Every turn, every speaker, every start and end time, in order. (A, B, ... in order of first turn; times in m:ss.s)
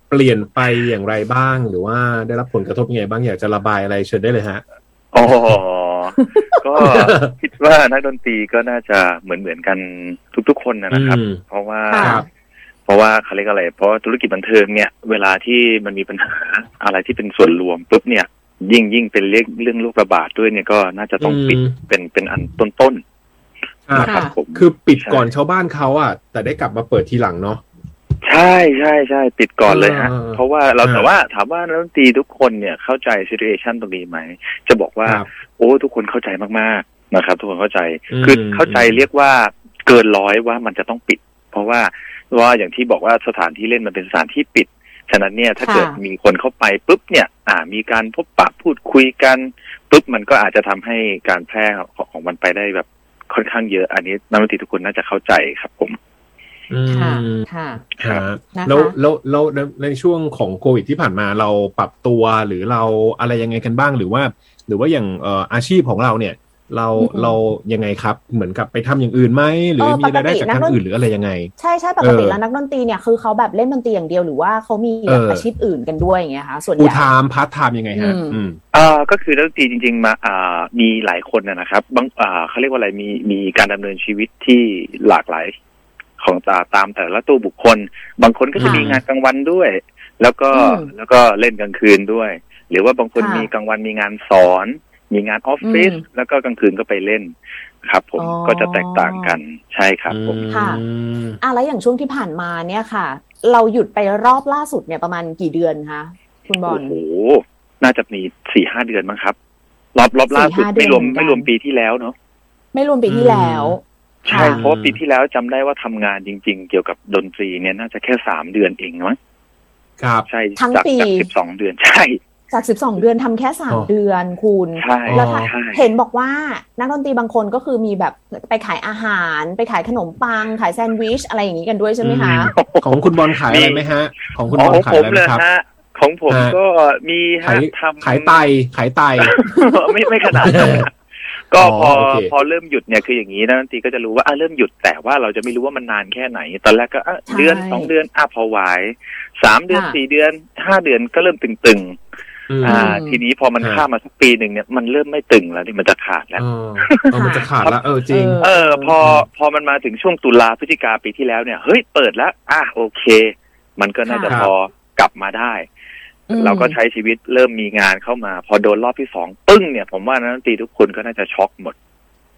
0:00.1-0:04.6 A
0:05.1-0:12.2 B
0:06.8-0:07.3 A
0:10.9-0:11.4 A
0:11.9-0:12.2 C
0:12.0-0:12.2 A
0:12.9-0:23.0 B
0:21.2-0:21.8 A
0:23.9-0:27.6 A
0:23.9-0:25.2 B
0:24.0-0:24.3 C
0:28.2-0:56.0 B
0:29.7-0:31.1 A
0:38.1-0:39.0 A
0:45.6-0:46.0 C
0:56.7-0:57.4 A
0:56.9-0:57.9 C
0:58.0-1:12.4 A
0:58.5-0:58.9 C
1:07.0-1:07.4 C
1:09.8-1:10.8 C
1:11.6-1:17.1 C
1:15.0-1:15.5 A
1:16.8-1:18.6 A
1:17.9-1:18.4 C
1:18.7-1:25.5 B
1:26.2-1:40.4 B
1:28.6-1:29.0 A
1:28.6-1:28.8 C
1:30.5-1:30.9 C
1:33.2-1:33.5 C
1:35.6-1:36.0 C
1:38.2-1:39.4 C
1:40.1-1:41.4 A
1:40.5-1:40.8 C
1:41.4-1:47.0 C
1:46.6-1:49.4 B
1:49.9-1:52.1 B
1:50.3-1:51.5 C
1:52.7-1:54.6 C
1:53.1-1:53.8 A
1:54.2-1:59.2 B
1:54.3-1:55.0 A
2:00.0-2:00.3 A
2:00.3-2:02.2 B
2:00.6-2:01.3 C
2:02.5-2:12.5 C
2:04.8-2:05.8 B
2:05.0-2:05.5 A
2:12.0-2:15.4 A
2:12.6-2:13.9 B
2:14.5-2:18.4 B
2:16.3-2:16.6 A
2:17.4-2:19.3 A
2:19.2-2:20.9 B
2:20.4-2:20.8 A
2:21.5-2:32.0 B
2:21.6-2:22.3 A
2:27.3-2:27.9 C
2:29.7-2:30.0 C
2:32.5-2:32.9 A
2:32.6-2:37.8 B
2:32.6-2:33.2 C
2:33.6-2:33.8 A
2:36.4-2:38.4 A
2:37.1-2:37.5 C
2:38.1-2:38.9 C
2:38.4-2:45.7 B
2:44.0-2:44.4 C
2:46.3-2:46.8 C
2:46.3-2:51.8 B